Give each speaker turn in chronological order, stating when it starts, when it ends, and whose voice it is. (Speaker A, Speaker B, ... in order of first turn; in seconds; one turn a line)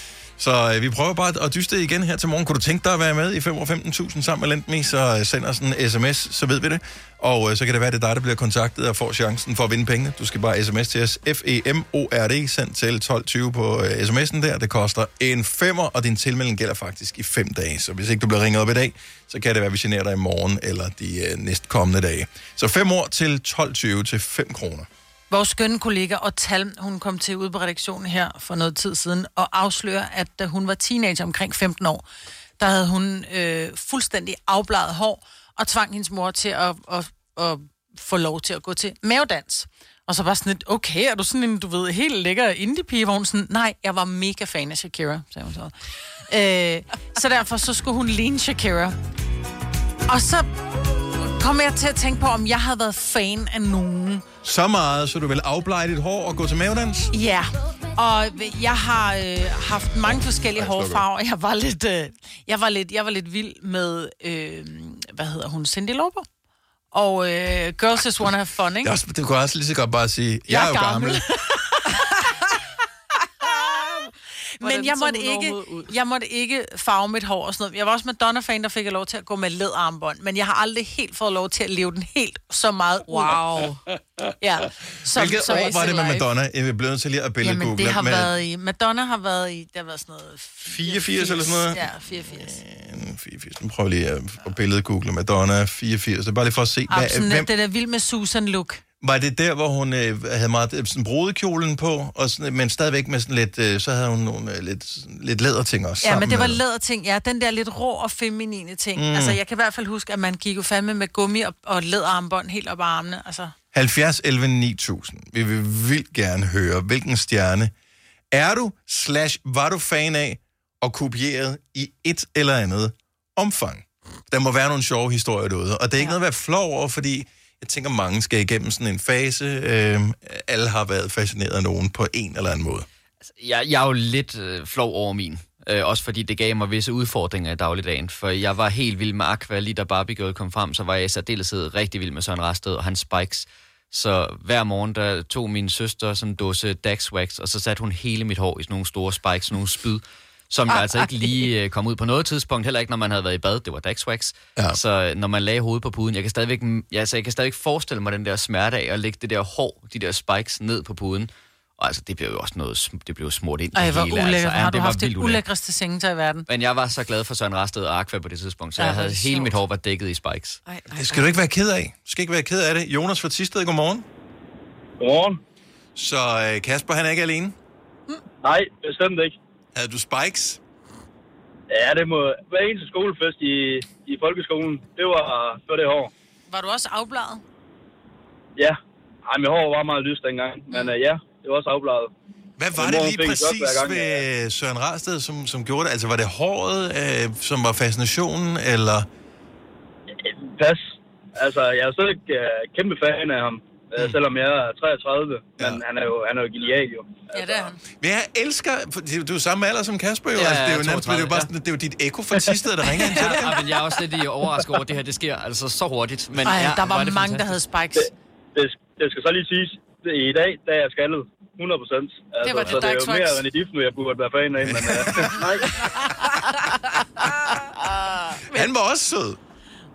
Speaker A: 0.4-24.9
Speaker B: 25.3-32.0
Speaker B: 32.6-45.7
Speaker B: 46.3-49.0
Speaker B: 50.1-50.5
Speaker B: 51.2-54.3
Speaker A: 54.4-57.1
Speaker B: 57.1-66.3
Speaker A: 59.9-61.0
Speaker B: 66.9-68.9
Speaker A: 68.8-71.3
Speaker B: 70.5-72.3
Speaker C: 73.7-74.0
Speaker B: 74.6-83.4
Speaker C: 74.6-75.9
Speaker C: 83.1-83.8
Speaker B: 84.4-86.1
Speaker A: 85.1-88.3
Speaker C: 85.3-86.2
Speaker B: 87.4-92.6
Speaker A: 90.7-97.5
Speaker B: 96.9-98.8
Speaker A: 99.0-106.6
Speaker B: 106.0-113.5
Speaker A: 109.0-109.4
Speaker A: 113.7-117.7
Speaker A: 118.3-132.8
Speaker D: 133.4-165.4
Speaker C: 150.7-151.4
Speaker B: 163.8-166.5
Speaker D: 166.5-170.6
Speaker C: 168.8-169.5
Speaker C: 170.7-171.3
Speaker A: 170.9-174.0
Speaker E: 175.0-175.4
Speaker A: 175.9-177.5
Speaker E: 178.4-179.3
Speaker A: 179.7-180.6
Speaker E: 181.7-186.1
Speaker B: 186.5-187.4
Speaker E: 188.6-192.1
Speaker A: 192.6-199.1
Speaker E: 192.8-194.2
Speaker E: 200.2-207.7
Speaker B: 207.3-207.8
Speaker A: 207.9-213.5
Speaker D: 210.3-211.5
Speaker D: 213.2-217.6
Speaker B: 213.2-213.4
Speaker B: 216.5-218.1
Speaker E: 218.0-225.7
Speaker B: 222.4-223.4
Speaker A: 224.6-225.5
Speaker C: 226.3-228.7
Speaker A: 228.4-229.4